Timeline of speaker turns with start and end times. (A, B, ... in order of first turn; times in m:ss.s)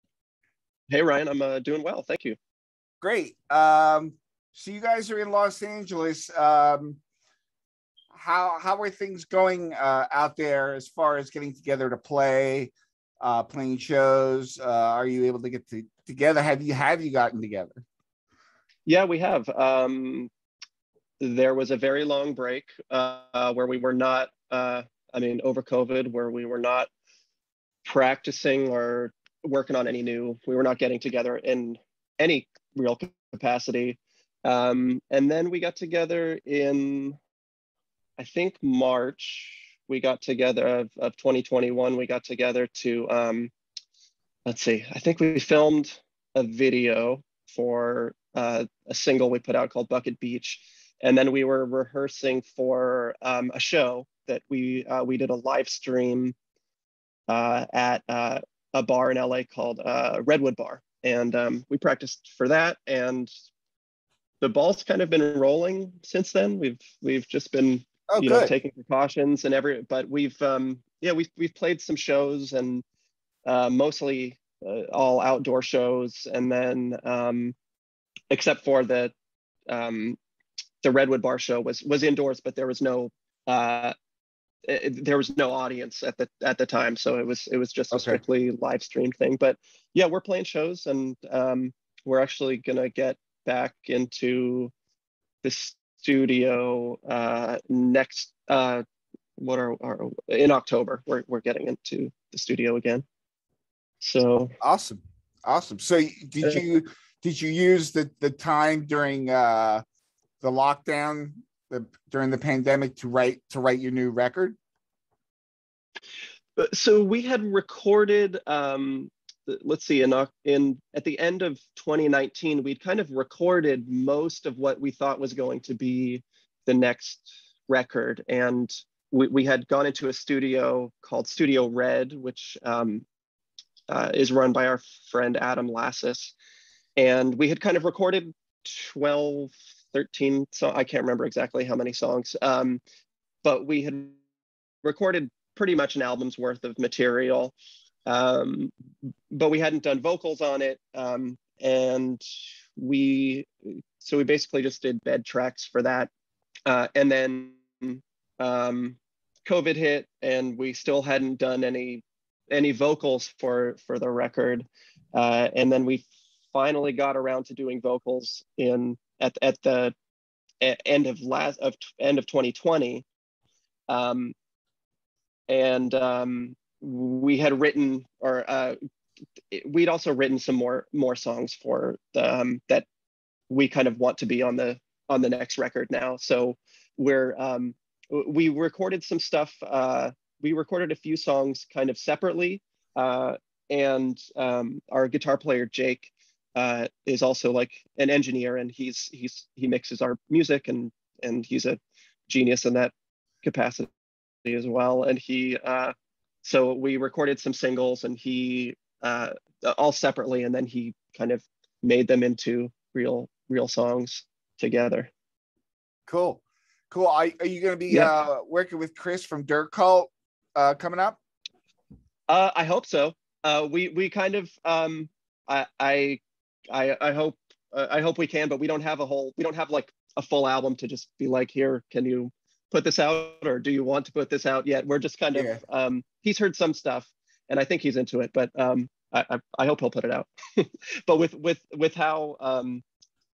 0:00.9-0:02.4 A
0:03.0-0:07.0 B
0:08.1-0:17.8 B
0:18.8-0:20.3 A
0:21.2-0:26.9 A
0:27.8-0:37.2 A
0:38.2-0:43.5 A
0:44.4-0:56.3 A
0:57.3-1:03.3 A
1:04.4-1:12.8 A
1:08.1-1:08.5 B
1:13.4-1:17.5 A
1:18.3-1:19.1 A
1:19.7-1:20.2 A
1:20.8-1:23.9 A
1:24.6-1:34.7 A
1:27.9-1:28.2 B
1:35.4-1:38.8 A
1:39.4-1:43.0 A
1:44.0-1:44.5 A
1:44.6-1:49.8 B
1:50.4-1:54.6 B
1:56.6-2:13.0 A
2:13.9-2:16.3 A
2:17.0-2:22.8 A
2:23.4-2:24.2 A
2:24.8-2:27.5 A
2:28.0-2:28.7 A
2:29.3-2:32.2 A
2:32.8-2:36.1 A
2:36.6-2:49.9 A
2:50.6-2:53.0 A
2:53.9-2:54.3 A
2:55.5-2:58.8 A
2:59.5-3:02.9 A
3:03.5-3:22.9 A
3:23.4-3:23.9 A
3:24.4-3:35.1 A
3:36.1-3:41.2 B
3:42.3-4:02.8 A
3:55.3-3:55.6 B